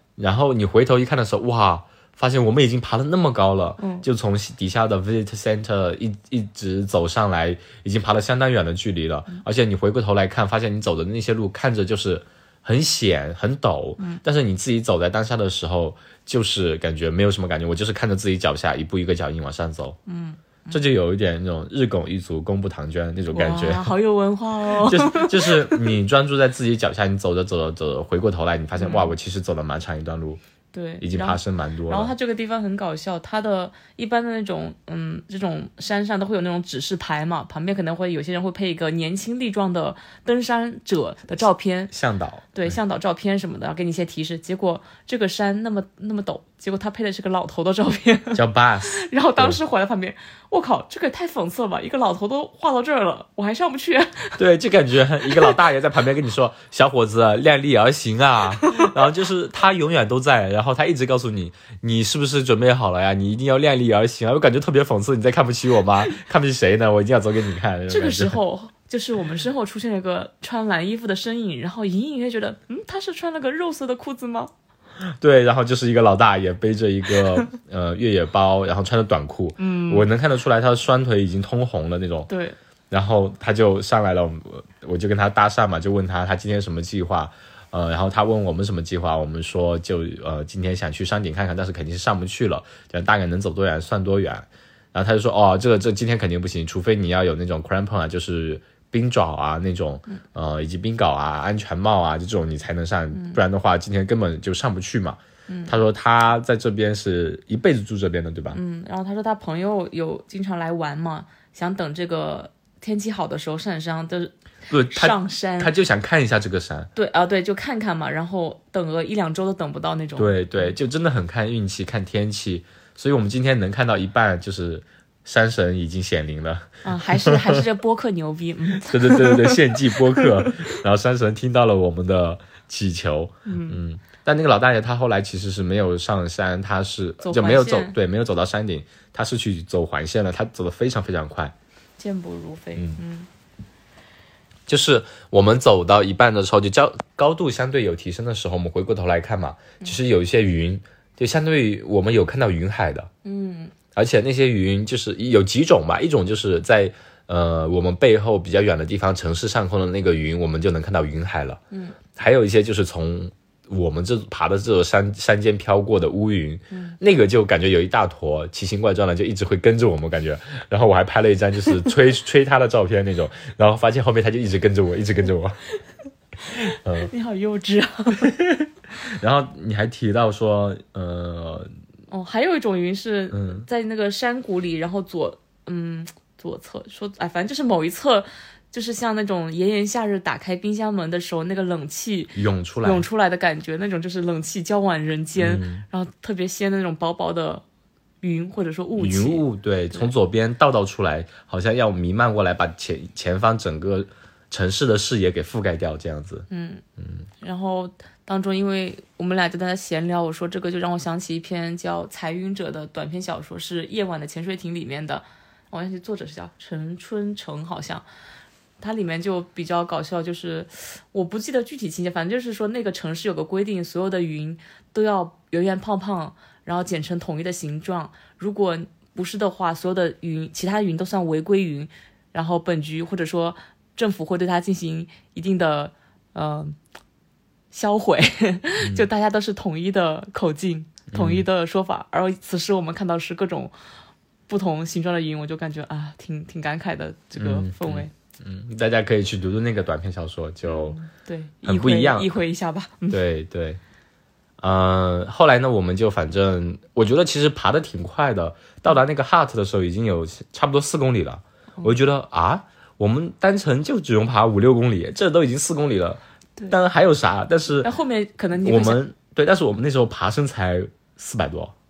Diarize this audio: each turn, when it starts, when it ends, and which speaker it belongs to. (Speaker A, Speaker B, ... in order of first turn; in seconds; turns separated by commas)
Speaker A: 0.2-20.0, Speaker B: 3.8-4.1, Speaker B: 20.1-20.8, Speaker A: 20.7-23.9, Speaker B: 23.3-25.8, Speaker A: 24.8-30.4, Speaker B: 28.8-29.1, Speaker B: 30.7-41.9, Speaker A: 31.0-32.1, Speaker A: 41.9-42.8, Speaker B: 42.5-48.4, Speaker A: 48.3-49.6, Speaker B: 48.9-54.4, Speaker A: 54.4-68.4, Speaker B: 55.2-55.6, Speaker B: 58.6-58.9, Speaker B: 67.9-74.5, Speaker A: 75.1-82.3, Speaker B: 79.6-80.1, Speaker B: 82.3-82.6, Speaker A: 82.9-108.6, Speaker B: 103.1-103.4, Speaker B: 105.5-105.8, Speaker B: 108.5-114.4, Speaker A: 114.7-116.9, Speaker B: 114.9-115.7, Speaker B: 116.9-120.7, Speaker A: 120.2-127.6, Speaker B: 126.8-129.6, Speaker A: 128.8-141.5, Speaker B: 130.2-130.5, Speaker B: 133.4-133.8, Speaker B: 137.2-137.9, Speaker B: 142.0-143.3, Speaker A: 144.7-153.1, Speaker B: 153.2-153.8, Speaker A: 153.9-161.6, Speaker B: 161.7-161.9, Speaker A: 162.1-175.6, Speaker B: 166.7-166.9, Speaker B: 176.4-178.3, Speaker A: 176.6-177.1, Speaker A: 178.2-181.7, Speaker B: 182.1-197.6, Speaker A: 183.3-183.7, Speaker A: 192.3-193.0, Speaker A: 195.4-195.8, Speaker B: 198.2-200.1, Speaker A: 199.0-206.5, Speaker B: 206.5-206.8, Speaker B: 207.4-218.0, Speaker B: 218.8-236.8, Speaker B: 237.7-243.7, Speaker A: 238.8-239.1, Speaker A: 241.1-241.4, Speaker B: 244.5-248.1, Speaker A: 247.4-250.9, Speaker B: 250.6-253.2, Speaker A: 251.7-252.3, Speaker A: 253.1-253.8, Speaker A: 254.6-267.9, Speaker B: 267.8-269.0, Speaker A: 268.6-271.7